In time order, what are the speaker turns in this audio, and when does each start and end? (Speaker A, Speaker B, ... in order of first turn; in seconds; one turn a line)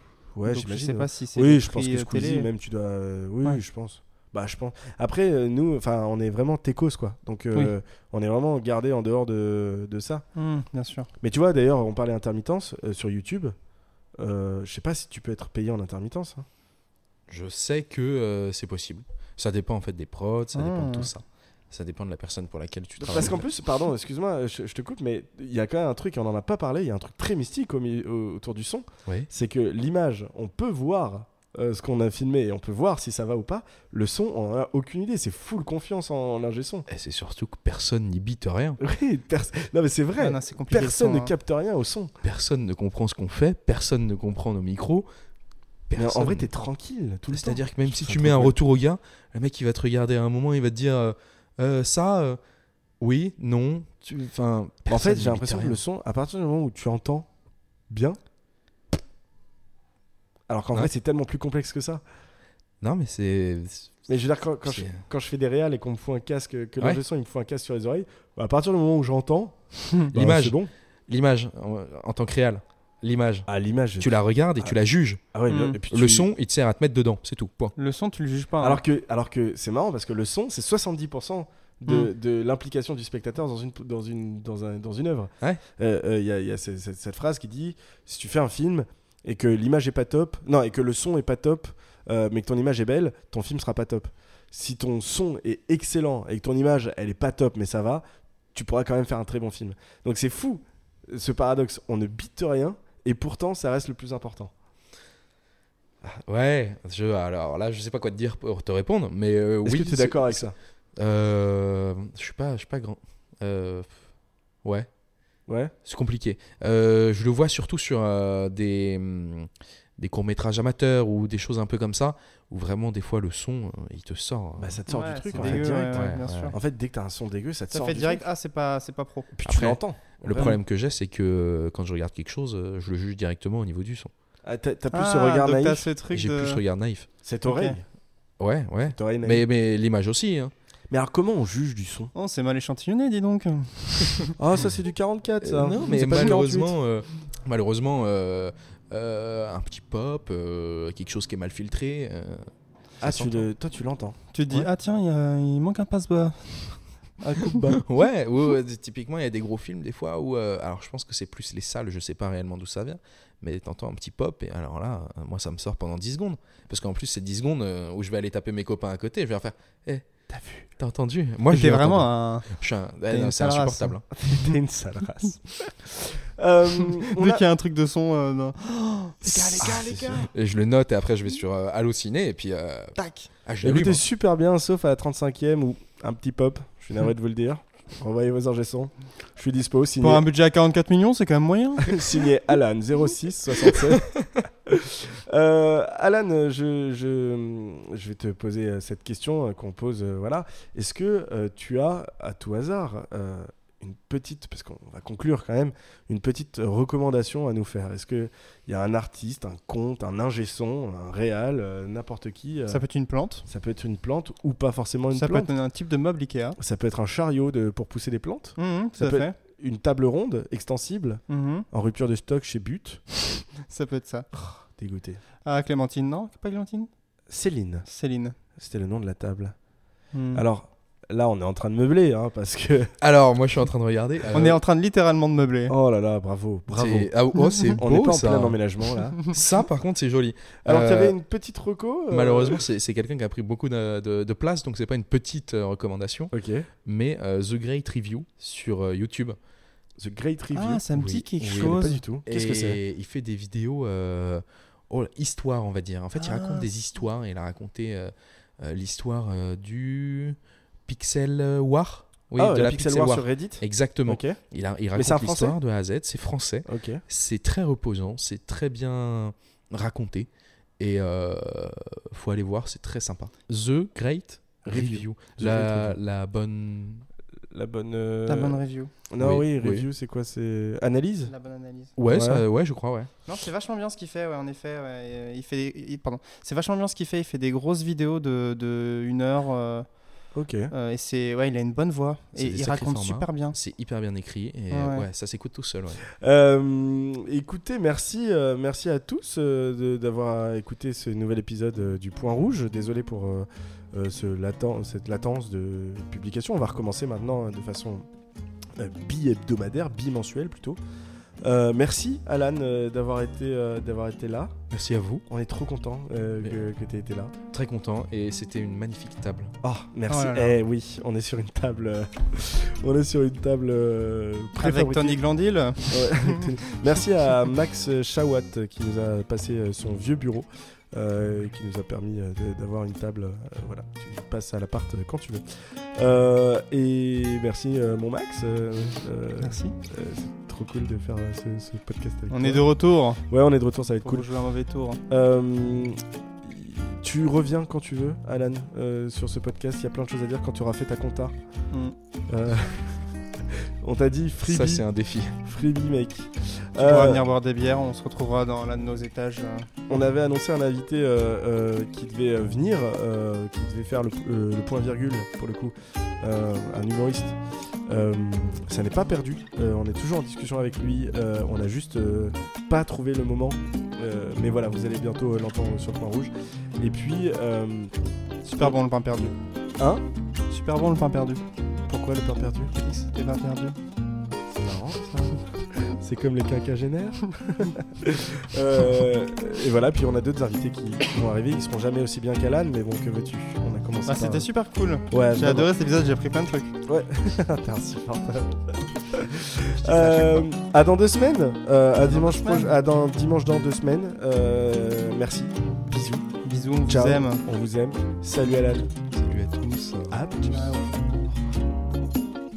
Speaker A: 0.3-10.2
Speaker B: 0.5-2.5
Speaker B: 10.4-11.1
Speaker A: 11.2-13.6
Speaker A: 14.2-16.5
Speaker C: 17.3-23.4
Speaker B: 20.6-21.1
Speaker A: 23.0-36.9
Speaker C: 36.9-38.8
Speaker A: 38.8-42.1
Speaker B: 40.2-41.3
Speaker C: 42.2-45.1
Speaker C: 45.9-46.5
Speaker A: 46.0-48.6
Speaker C: 47.3-52.4
Speaker C: 53.0-55.8
Speaker A: 54.9-57.3
Speaker A: 57.9-58.2
Speaker A: 60.5-62.0
Speaker C: 62.8-64.1
Speaker A: 64.1-69.6
Speaker C: 64.6-65.0
Speaker B: 69.8-70.1
Speaker A: 70.1-70.7
Speaker C: 70.1-73.5
Speaker A: 73.5-74.7
Speaker C: 74.0-75.3
Speaker A: 75.3-76.3
Speaker B: 75.5-75.8
Speaker C: 75.9-77.7
Speaker B: 77.8-78.8
Speaker A: 78.6-104.5
Speaker C: 106.1-113.9
Speaker A: 109.7-110.5
Speaker A: 115.5-115.7
Speaker C: 115.8-124.8
Speaker A: 124.6-128.2
Speaker B: 124.9-126.6
Speaker C: 125.3-126.5
Speaker B: 127.7-129.3
Speaker A: 129.3-130.6
Speaker C: 129.4-134.1
Speaker A: 134.5-135.9
Speaker B: 134.9-136.6
Speaker C: 136.1-137.1
Speaker A: 137.2-137.8
Speaker B: 137.5-137.8
Speaker C: 138.4-140.5
Speaker A: 138.9-139.4
Speaker A: 140.9-142.1
Speaker B: 142.2-144.3
Speaker A: 144.4-146.8
Speaker C: 145.4-152.5
Speaker A: 153.0-154.2
Speaker C: 153.0-153.5
Speaker B: 154.3-157.7
Speaker A: 157.4-157.8
Speaker C: 157.7-170.1
Speaker A: 170.3-170.7
Speaker C: 170.8-174.1
Speaker B: 171.5-172.5
Speaker B: 173.1-174.4
Speaker A: 174.2-177.4
Speaker B: 177.0-180.3
Speaker C: 179.3-184.0
Speaker A: 179.6-180.3
Speaker B: 183.0-183.3
Speaker A: 183.6-190.2
Speaker B: 190.0-192.1
Speaker A: 191.9-194.1
Speaker A: 194.7-212.8
Speaker B: 212.7-213.5
Speaker A: 213.5-215.5
Speaker B: 215.1-216.6
Speaker A: 216.6-223.1
Speaker B: 218.6-219.3
Speaker B: 221.3-221.7
Speaker B: 223.7-224.3
Speaker A: 224.3-225.2
Speaker B: 225.4-226.9
Speaker A: 227.3-227.9
Speaker B: 227.9-228.4
Speaker A: 228.6-229.6
Speaker B: 230.1-230.4
Speaker A: 230.3-232.9
Speaker C: 233.0-234.6
Speaker B: 234.3-235.8
Speaker A: 235.7-237.1
Speaker C: 236.7-238.6
Speaker A: 237.8-239.3
Speaker C: 239.2-241.2
Speaker A: 240.7-242.7
Speaker C: 242.1-246.3
Speaker A: 246.3-246.7
Speaker C: 246.8-249.4
Speaker A: 250.0-252.8
Speaker B: 250.5-252.0
Speaker C: 251.0-270.3
Speaker B: 256.1-256.7
Speaker A: 262.4-264.4
Speaker A: 264.9-265.6
Speaker A: 266.7-267.0
Speaker C: 270.8-277.1
Speaker A: 274.7-276.0
Speaker A: 277.5-281.3
Speaker B: 278.3-278.9
Speaker C: 279.2-279.9
Speaker B: 281.3-281.9
Speaker C: 282.0-283.1
Speaker A: 282.1-282.4
Speaker B: 283.3-289.9
Speaker A: 290.3-290.7
Speaker B: 290.7-293.6
Speaker C: 292.4-296.0
Speaker B: 294.7-295.1
Speaker A: 296.1-308.1
Speaker A: 308.8-310.8
Speaker A: 311.4-314.6
Speaker C: 314.7-315.2
Speaker A: 315.3-317.3
Speaker C: 317.5-319.5
Speaker A: 319.6-325.2
Speaker B: 320.1-320.6
Speaker B: 324.6-326.7
Speaker A: 325.9-342.7
Speaker B: 339.4-339.8
Speaker B: 342.3-343.2
Speaker A: 343.2-344.3
Speaker B: 344.0-345.0
Speaker A: 345.1-351.3
Speaker A: 352.3-354.9
Speaker C: 354.4-355.4
Speaker A: 355.4-357.2
Speaker B: 356.8-359.8
Speaker A: 359.9-377.9
Speaker B: 378.4-379.4
Speaker A: 379.8-380.0
Speaker B: 380.5-381.4
Speaker A: 381.9-382.7
Speaker B: 382.8-383.8
Speaker A: 384.5-394.5
Speaker B: 394.1-396.8
Speaker A: 395.1-395.7
Speaker A: 396.9-398.6
Speaker A: 399.1-406.2
Speaker B: 399.7-400.5
Speaker B: 402.0-402.7
Speaker B: 406.4-407.4
Speaker A: 406.9-408.9
Speaker C: 409.1-410.2
Speaker A: 410.1-410.9
Speaker B: 410.5-411.0